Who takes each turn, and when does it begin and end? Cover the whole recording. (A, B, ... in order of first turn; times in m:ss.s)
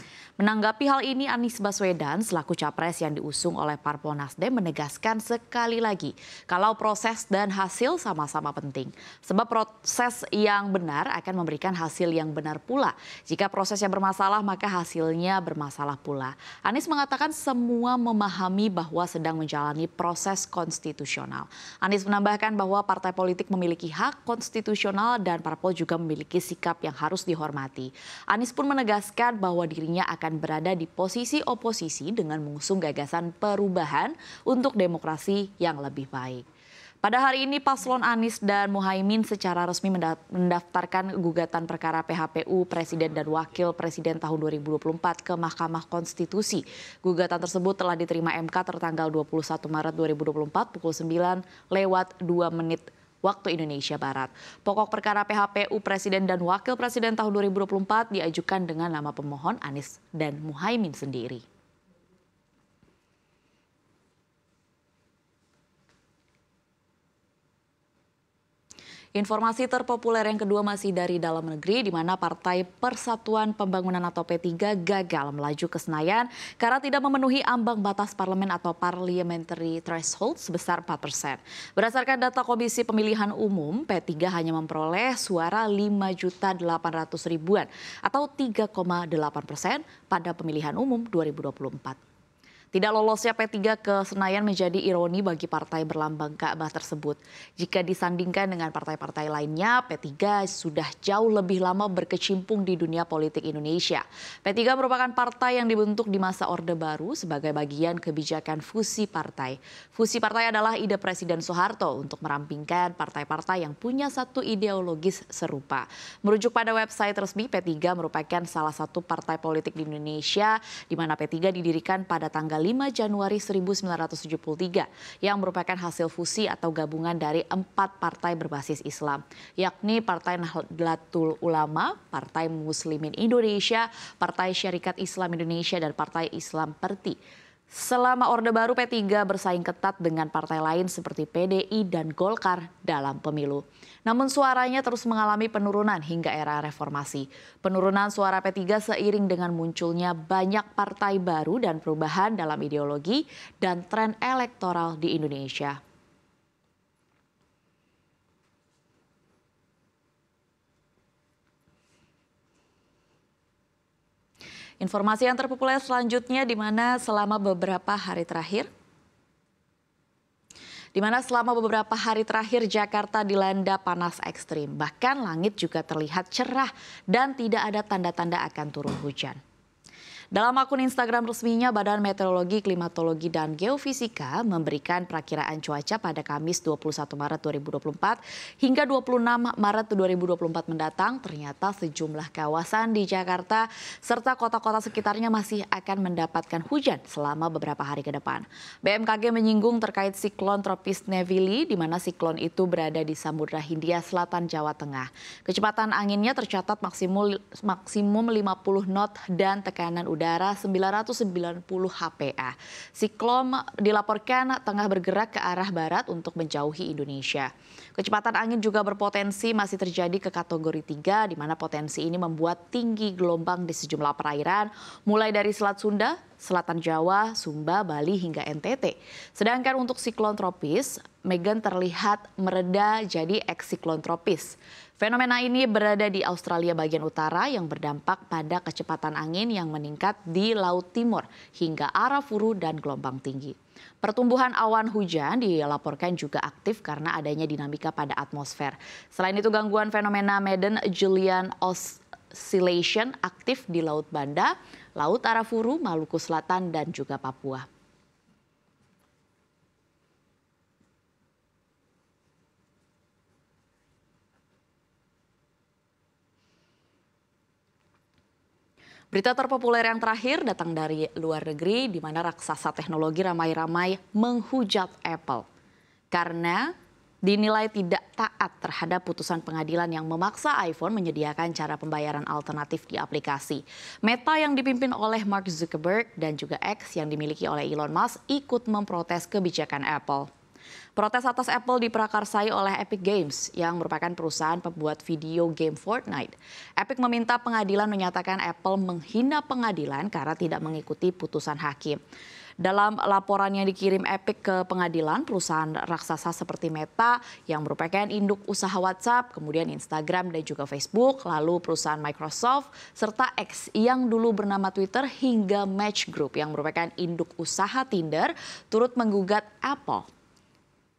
0:00.4-0:36.4 A
0:37.0-1:01.4 A
1:09.2-1:32.0 A
1:32.7-2:17.2 A
2:17.7-2:35.8 A
2:44.8-2:48.7 A
2:50.9-2:59.4 A
3:00.3-4:17.7 A
4:29.1-4:35.4 A
4:36.1-4:50.3 A
4:51.0-5:02.0 A
5:02.6-5:20.1 A